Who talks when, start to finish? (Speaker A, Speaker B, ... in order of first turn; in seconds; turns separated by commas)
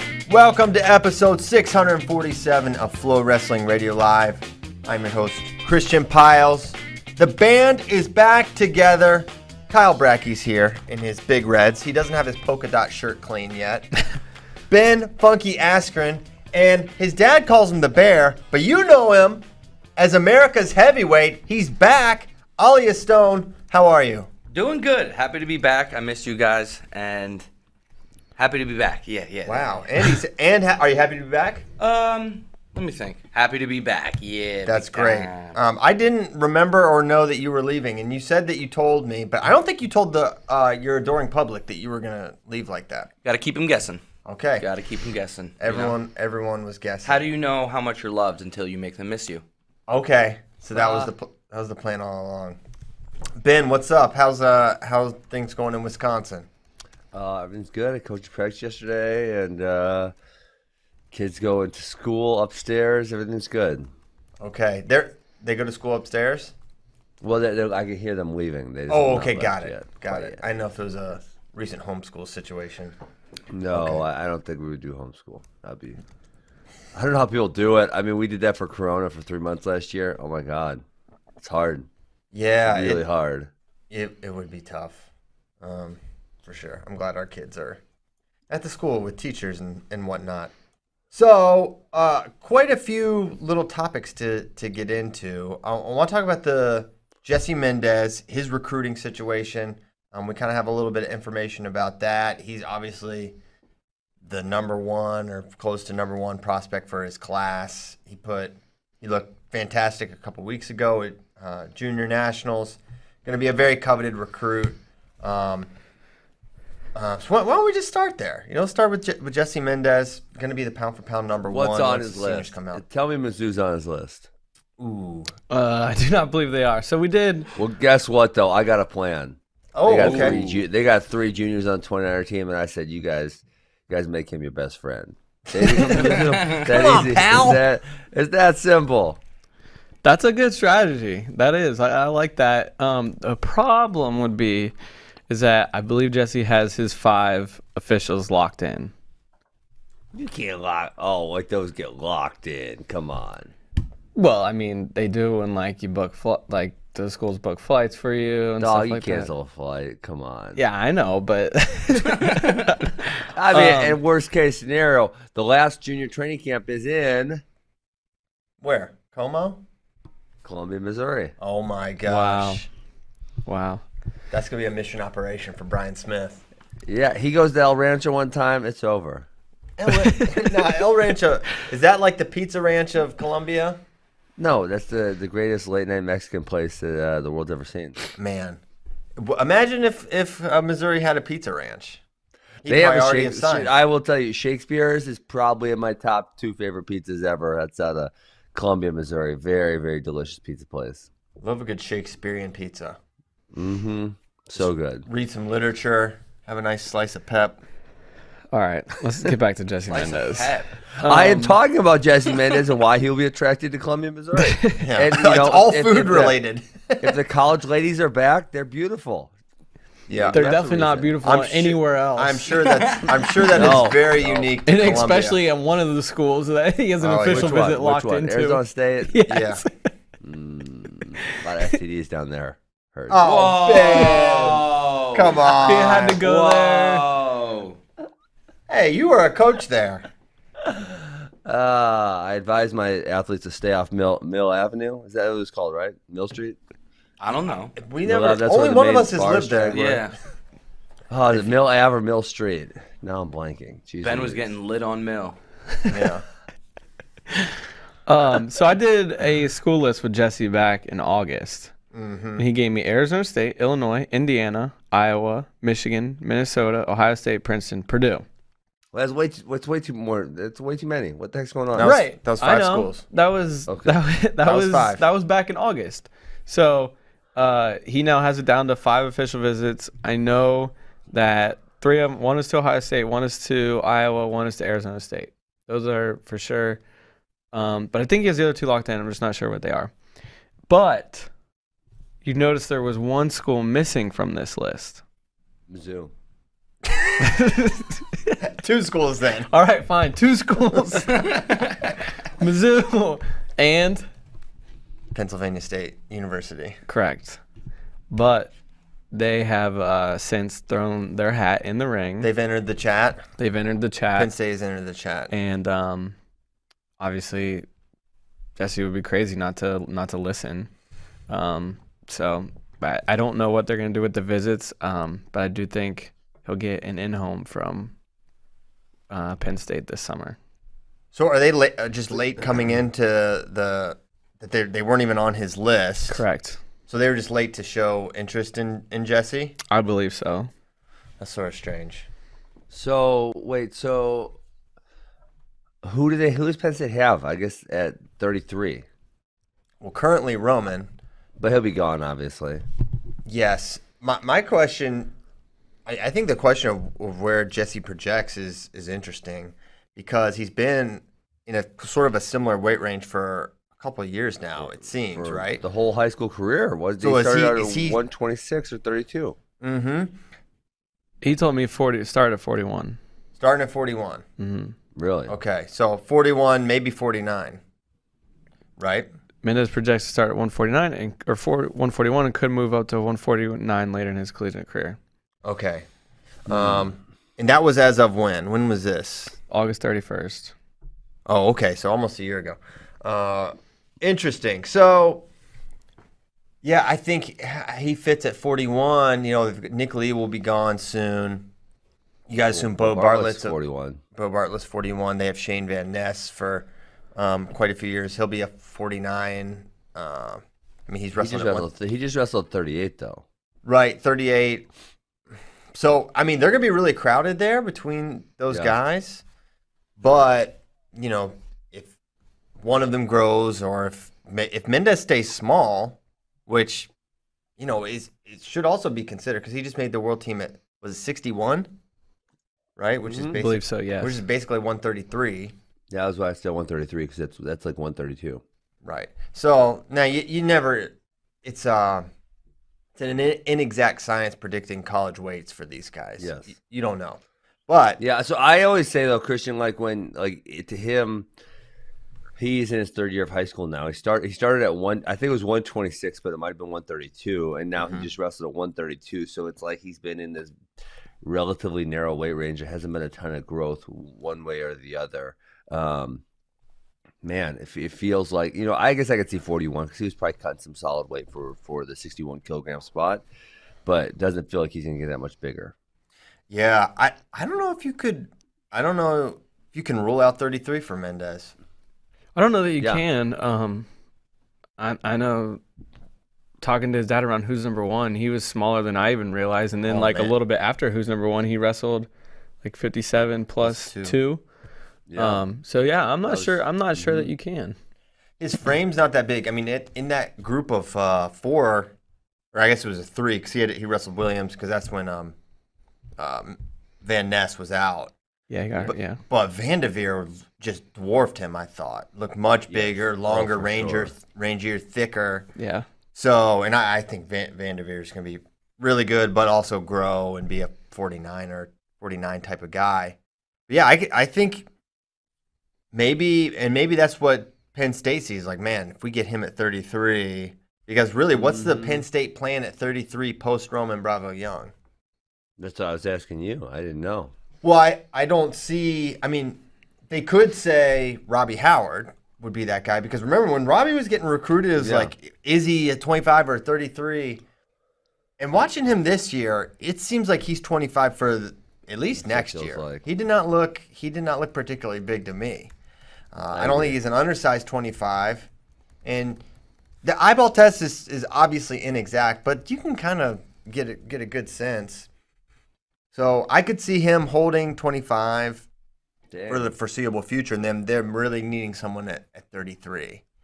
Speaker A: 0.3-13.9, Speaker A: 14.7-19.4, Speaker A: 19.9-24.3, Speaker B: 24.5-27.4, Speaker B: 28.4-30.1, Speaker A: 29.4-31.6, Speaker B: 31.8-35.5, Speaker A: 34.6-43.1, Speaker B: 43.2-44.0, Speaker A: 44.2-44.6, Speaker B: 44.6-46.0, Speaker A: 45.6-47.2, Speaker B: 47.0-49.4, Speaker A: 49.9-52.6, Speaker B: 50.7-51.1, Speaker A: 53.4-56.5, Speaker C: 57.1-60.1, Speaker C: 61.1-63.9, Speaker A: 64.4-66.5, Speaker C: 67.2-70.4, Speaker A: 68.9-73.0, Speaker C: 73.5-76.0, Speaker A: 73.7-74.0, Speaker C: 76.9-80.8, Speaker C: 81.4-81.9, Speaker A: 82.3-83.0, Speaker C: 82.6-83.5, Speaker A: 83.9-85.0, Speaker A: 85.6-87.8, Speaker A: 88.5-90.5, Speaker A: 91.1-103.4, Speaker A: 104.2-115.7, Speaker A: 116.9-122.8, Speaker C: 121.5-124.3, Speaker A: 124.8-125.3, Speaker D: 125.5-127.5, Speaker C: 127.5-139.2, Speaker A: 129.7-130.4, Speaker B: 130.0-130.6, Speaker A: 135.6-137.6, Speaker B: 136.0-136.7, Speaker D: 140.0-144.7, Speaker D: 145.3-148.9, Speaker C: 150.1-153.5, Speaker D: 154.1-159.3, Speaker C: 158.6-160.6, Speaker D: 160.6-164.0, Speaker B: 161.9-162.8, Speaker C: 163.3-167.4, Speaker A: 168.6-169.6, Speaker C: 170.4-171.3, Speaker A: 171.4-172.7, Speaker D: 172.1-172.6, Speaker D: 173.4-173.8, Speaker A: 174.3-176.4, Speaker C: 176.8-179.3, Speaker A: 179.8-183.8, Speaker D: 179.9-180.5, Speaker C: 184.4-188.1, Speaker A: 188.2-188.6, Speaker A: 189.2-192.0, Speaker A: 192.6-193.7, Speaker C: 192.7-201.1, Speaker A: 201.4-203.0, Speaker C: 203.5-205.1, Speaker A: 204.6-207.6, Speaker D: 208.5-211.6, Speaker B: 209.9-210.7, Speaker C: 211.0-216.3, Speaker D: 214.3-214.9, Speaker A: 214.8-217.2, Speaker C: 217.0-219.3, Speaker A: 220.1-220.5, Speaker C: 220.1-221.2, Speaker D: 220.3-222.7, Speaker A: 221.2-225.4, Speaker B: 222.5-223.4, Speaker C: 223.5-224.5, Speaker D: 223.6-223.9, Speaker D: 224.6-229.9, Speaker A: 227.0-227.7, Speaker C: 227.3-229.3, Speaker A: 229.3-229.6, Speaker C: 230.2-233.2, Speaker D: 231.1-231.4, Speaker A: 233.1-236.2, Speaker B: 233.2-237.8, Speaker D: 235.6-237.1, Speaker A: 238.7-240.1, Speaker C: 240.7-246.6, Speaker B: 247.2-247.8, Speaker A: 247.8-250.1, Speaker C: 248.0-249.9, Speaker B: 249.7-250.1, Speaker C: 251.1-254.4, Speaker B: 254.0-255.4, Speaker A: 255.9-256.2, Speaker D: 258.1-261.7, Speaker A: 261.9-262.4, Speaker D: 262.4-268.2, Speaker C: 268.9-271.9, Speaker A: 271.7-273.0, Speaker D: 271.8-286.8, Speaker C: 273.7-274.0, Speaker A: 274.4-275.0, Speaker D: 287.5-289.9, Speaker D: 290.7-291.3, Speaker D: 292.2-295.0, Speaker C: 295.7-296.1, Speaker D: 297.2-298.4, Speaker A: 298.4-299.5, Speaker D: 299.5-301.4, Speaker B: 301.1-301.8, Speaker D: 302.4-304.0, Speaker A: 305.1-306.8, Speaker D: 306.9-307.4, Speaker D: 308.1-308.5, Speaker D: 309.1-312.3, Speaker A: 312.2-313.2, Speaker D: 313.4-314.3, Speaker A: 314.1-315.3, Speaker D: 315.3-316.1, Speaker D: 317.0-317.6, Speaker D: 318.6-320.7, Speaker D: 321.3-327.9, Speaker D: 329.1-330.4, Speaker A: 331.1-336.2, Speaker D: 336.1-336.6, Speaker A: 336.9-339.6, Speaker D: 339.7-340.5, Speaker A: 341.2-342.1, Speaker C: 342.7-344.4, Speaker C: 345.8-348.9, Speaker A: 349.8-350.9, Speaker C: 351.4-352.6, Speaker A: 353.2-355.1, Speaker A: 355.9-365.6, Speaker C: 365.1-369.4, Speaker A: 367.0-368.0, Speaker A: 369.6-370.2, Speaker D: 371.2-373.0, Speaker A: 373.4-374.2, Speaker D: 374.4-374.7, Speaker C: 374.9-375.3, Speaker A: 375.3-377.6, Speaker A: 378.8-379.1, Speaker D: 379.4-385.0, Speaker A: 385.4-385.9, Speaker A: 386.4-389.4, Speaker C: 386.5-386.8, Speaker D: 389.5-390.5, Speaker A: 391.3-395.2, Speaker A: 396.6-401.5, Speaker A: 402.3-403.6, Speaker C: 402.5-404.0, Speaker A: 404.1-411.7, Speaker C: 411.2-413.2, Speaker A: 413.6-414.7, Speaker A: 415.7-419.2, Speaker C: 418.5-418.7, Speaker A: 420.0-421.9, Speaker A: 422.6-426.9, Speaker A: 427.6-431.7, Speaker A: 432.8-435.5, Speaker C: 433.1-433.4, Speaker D: 433.4-434.2, Speaker C: 435.9-438.4, Speaker A: 438.8-442.1, Speaker A: 442.9-448.0, Speaker C: 446.2-446.5, Speaker C: 448.0-451.3, Speaker C: 452.4-460.5, Speaker A: 457.8-458.1, Speaker C: 461.2-466.2, Speaker C: 467.2-473.2, Speaker C: 473.9-475.7, Speaker A: 476.5-481.5, Speaker D: 482.3-483.9, Speaker D: 484.8-485.6, Speaker D: 486.6-492.1, Speaker A: 489.9-490.3, Speaker D: 492.6-494.4, Speaker A: 493.6-494.2, Speaker C: 495.1-495.4, Speaker D: 495.2-497.8, Speaker C: 496.3-497.3, Speaker A: 498.4-501.9, Speaker A: 502.5-505.3, Speaker A: 506.2-508.1, Speaker D: 508.5-509.2, Speaker A: 508.7-515.5, Speaker C: 512.7-514.1, Speaker D: 515.5-515.8, Speaker A: 516.1-523.2, Speaker A: 523.7-524.7, Speaker A: 525.9-534.7, Speaker C: 531.3-532.0, Speaker C: 535.6-537.3, Speaker A: 537.6-547.4, Speaker C: 544.8-545.1, Speaker A: 548.4-555.7, Speaker C: 552.2-553.0, Speaker A: 556.3-558.5, Speaker C: 556.5-557.0, Speaker A: 559.0-559.4, Speaker A: 560.0-565.1, Speaker A: 566.1-568.7, Speaker C: 569.3-569.7, Speaker A: 569.5-573.2